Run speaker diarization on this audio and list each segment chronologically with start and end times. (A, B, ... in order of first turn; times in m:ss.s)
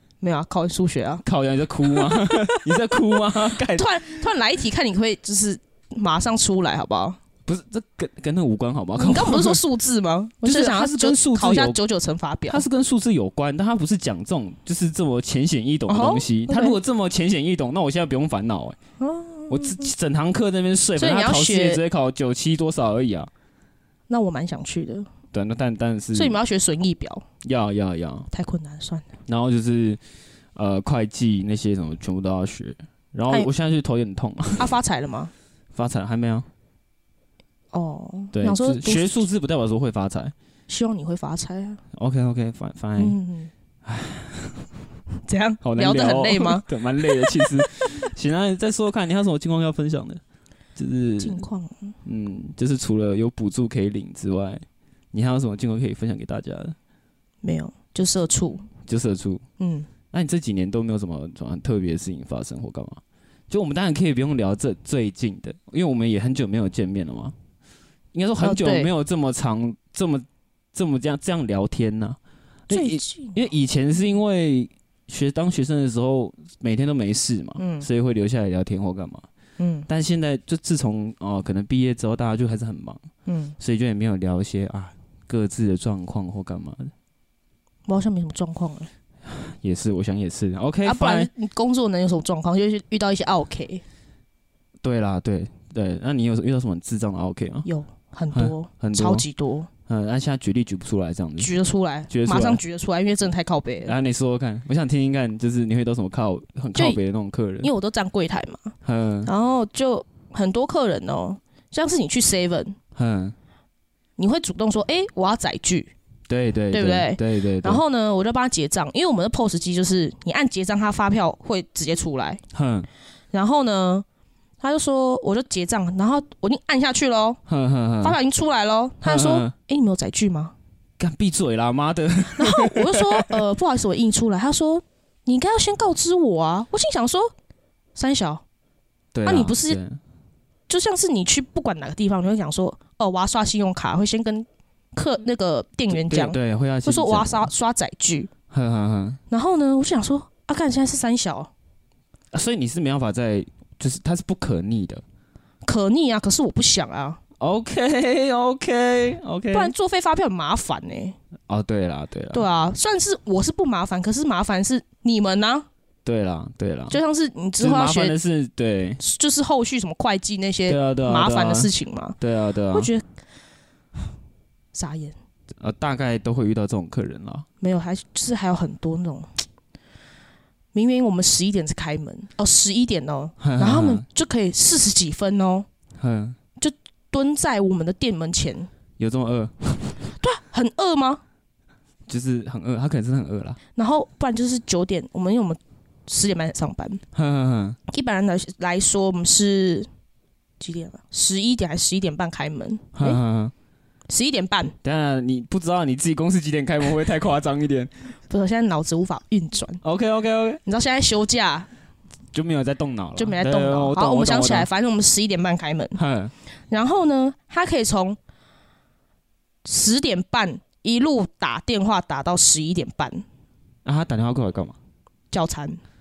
0:00.2-0:01.2 A
0:01.2-0:04.1 B
0:01.8-0:07.2 A
0:07.4-0:09.6 B
0:09.0-0:12.6 A
0:10.4-0:11.8 B
0:12.5-0:18.8 B
0:15.9-0:16.8 A
0:19.0-0:19.9 A
0:19.5-0:23.3 B
0:21.0-0:21.8 A
0:24.1-0:25.1 A
0:25.3-0:26.4 B
0:26.1-0:27.2 A
0:27.4-0:28.3 B
0:28.3-0:29.0 A
0:29.2-0:30.0 B
0:30.5-0:34.6 B
0:34.6-0:35.3 A
0:35.7-0:36.5 B
0:37.7-0:39.3 A
0:38.3-0:40.3 B
0:40.7-0:41.8 A
0:41.9-0:43.2 B
0:43.0-0:43.5 A
0:43.8-0:44.7 B
0:45.3-0:47.8 A
0:45.6-0:50.2 B
0:50.8-0:51.4 B
0:51.2-0:51.9 A
0:52.0-0:56.8 B
0:57.4-0:58.7 A
0:58.8-0:59.4 B
0:59.6-0:59.9 A
1:00.1-1:07.3 B
1:08.1-1:19.2 B
1:08.4-1:08.9 A
1:12.7-1:13.4 A
1:17.6-1:17.9 A
1:19.6-1:19.9 A
1:19.9-1:23.0 B
1:23.3-1:23.6 A
1:23.6-1:26.9 B
1:27.9-1:28.9 A
1:29.2-1:31.3 B
1:30.8-1:33.8 A
1:34.8-1:37.7 B
1:37.6-1:39.7 A
1:38.3-1:39.2 B
1:39.9-1:41.5 B
1:41.4-1:43.9 A
1:42.1-1:42.6 B
1:43.8-1:47.7 B
1:47.6-1:48.7 A
1:48.8-1:49.3 B
1:49.2-1:52.8 A
1:52.9-1:53.3 B
1:54.2-1:55.9 A
1:56.3-1:57.8 B
1:56.7-2:02.4 A
2:02.5-2:02.9 B
2:03.3-2:04.0 A
2:04.6-2:07.4 A
2:07.5-2:08.2 B
2:08.0-2:10.5 A
2:09.0-2:09.5 B
2:11.0-2:13.4 B
2:12.3-2:17.3 A
2:18.0-2:18.4 A
2:19.1-2:20.0 B
2:19.2-2:19.8 A
2:20.7-2:28.3 A
2:25.9-2:27.5 B
2:28.5-2:29.2 B
2:29.3-2:31.5 A
2:32.3-2:35.0 B
2:35.6-2:37.2 A
2:37.4-2:39.7 B
2:39.5-2:41.2 A
2:41.5-2:42.4 B
2:42.3-2:45.7 A
2:46.0-2:47.0 B
2:46.9-2:48.1 A
2:47.6-2:49.0 B
2:49.0-2:52.2 A
2:50.7-2:52.9 B
2:52.7-2:53.0 A
2:54.7-2:55.1 A
2:55.6-2:57.4 B
2:57.6-2:59.3 A
3:00.7-3:05.7 A
3:03.4-3:04.0 B
3:06.0-3:06.4 B
3:06.6-3:08.7 A
3:09.0-3:10.0 B
3:10.2-3:11.2 A
3:12.1-3:13.6 B
3:13.7-3:17.0 A
3:17.1-3:17.8 B
3:17.9-3:19.9 A
3:20.6-3:23.2 A
3:22.9-3:23.5 B
3:24.1-3:24.7 A
3:24.8-3:27.9 B
3:28.3-3:29.8 A
3:29.8-3:30.6 B
3:30.6-3:31.7 A
3:32.3-3:34.7 B
3:33.2-3:36.0 A
3:36.0-3:36.3 B
3:36.7-3:38.2 A
3:39.6-3:43.2 A
3:43.8-3:44.8 B
3:45.3-3:45.8 A